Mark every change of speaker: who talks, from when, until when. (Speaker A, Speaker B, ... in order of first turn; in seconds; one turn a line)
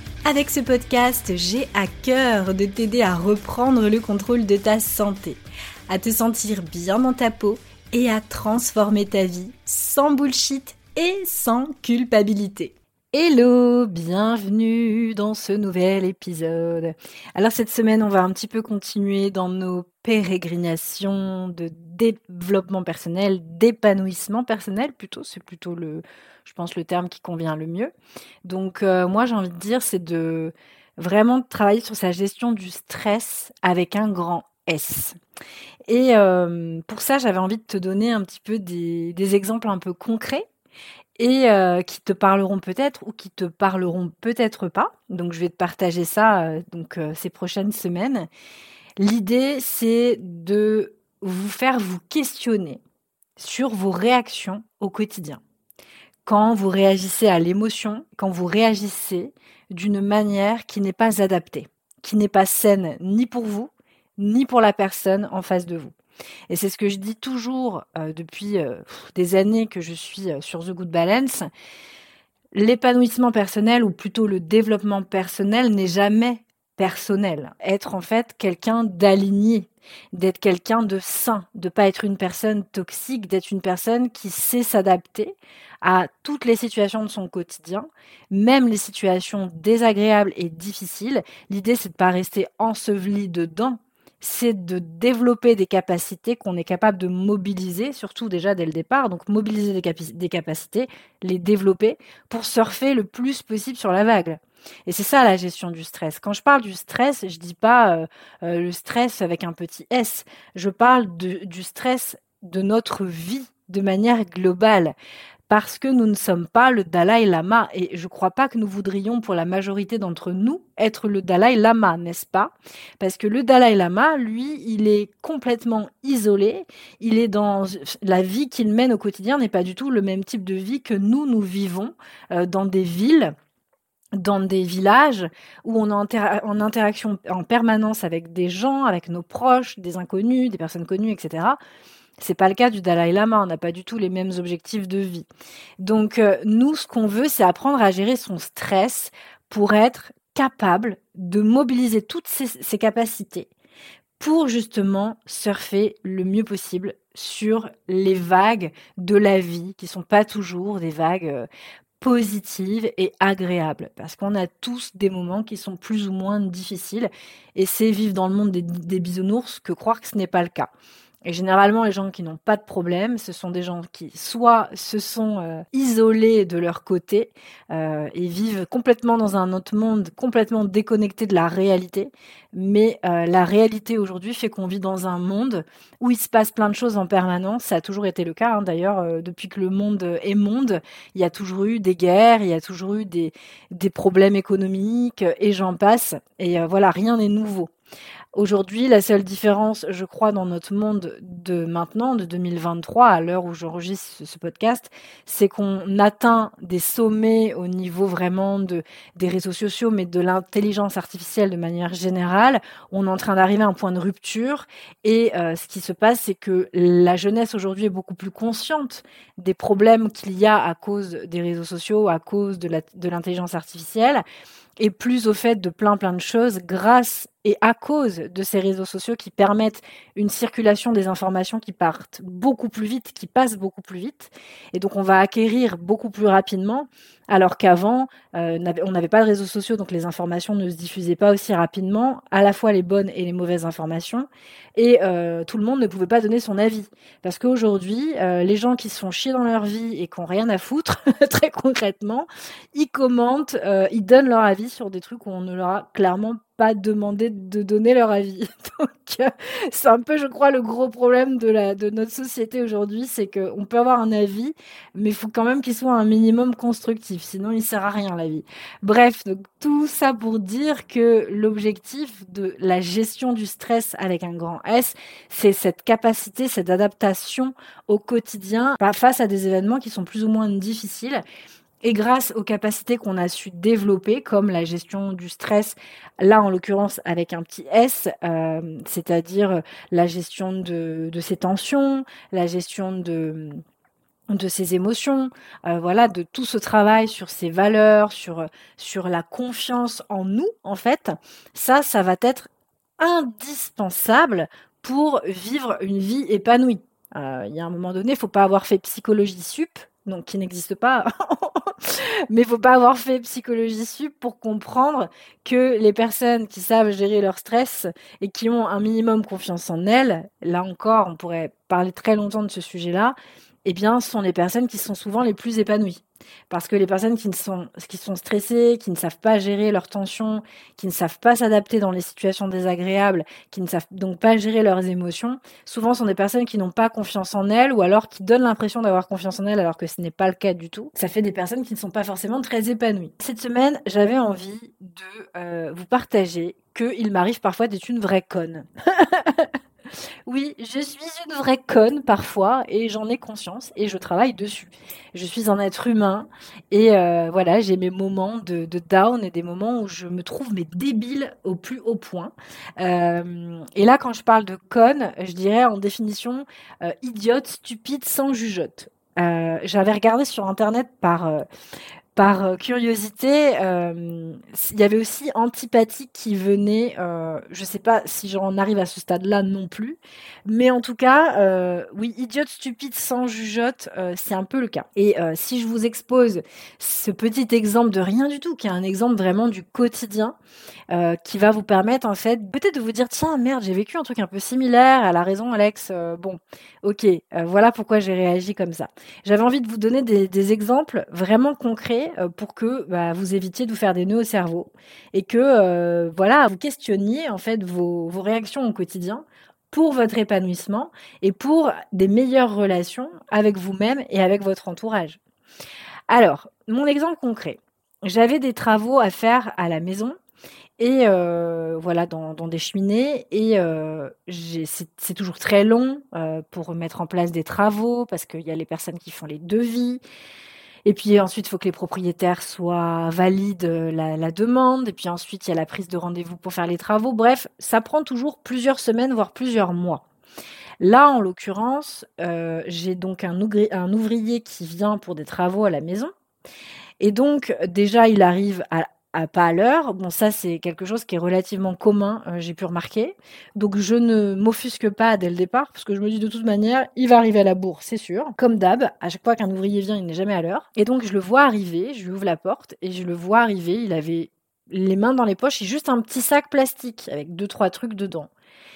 Speaker A: 0.2-27.9
Speaker A: 28.4-35.1
Speaker A: 35.9-40.5
Speaker A: 41.2-48.3
Speaker A: 49.0-52.8
Speaker A: 53.4-55.4
Speaker A: 56.2-65.9
Speaker A: 66.5-71.5
Speaker A: 72.5-114.9
Speaker A: 115.5-133.3
Speaker A: 134.2-141.6
Speaker A: 142.2-145.3
Speaker A: 145.8-153.5
Speaker A: 154.2-161.5
Speaker A: 162.0-170.7
Speaker A: 171.2-197.7
Speaker A: 198.3-224.2
Speaker A: 224.8-281.2
Speaker A: 281.8-293.6
Speaker A: 294.3-349.5
Speaker A: 350.3-371.4
Speaker A: 372.1-390.4
Speaker A: 390.9-415.2
Speaker A: 416.1-420.1
Speaker A: 420.8-430.0
Speaker A: 430.9-440.0
Speaker A: 440.8-446.1
Speaker A: 447.0-468.3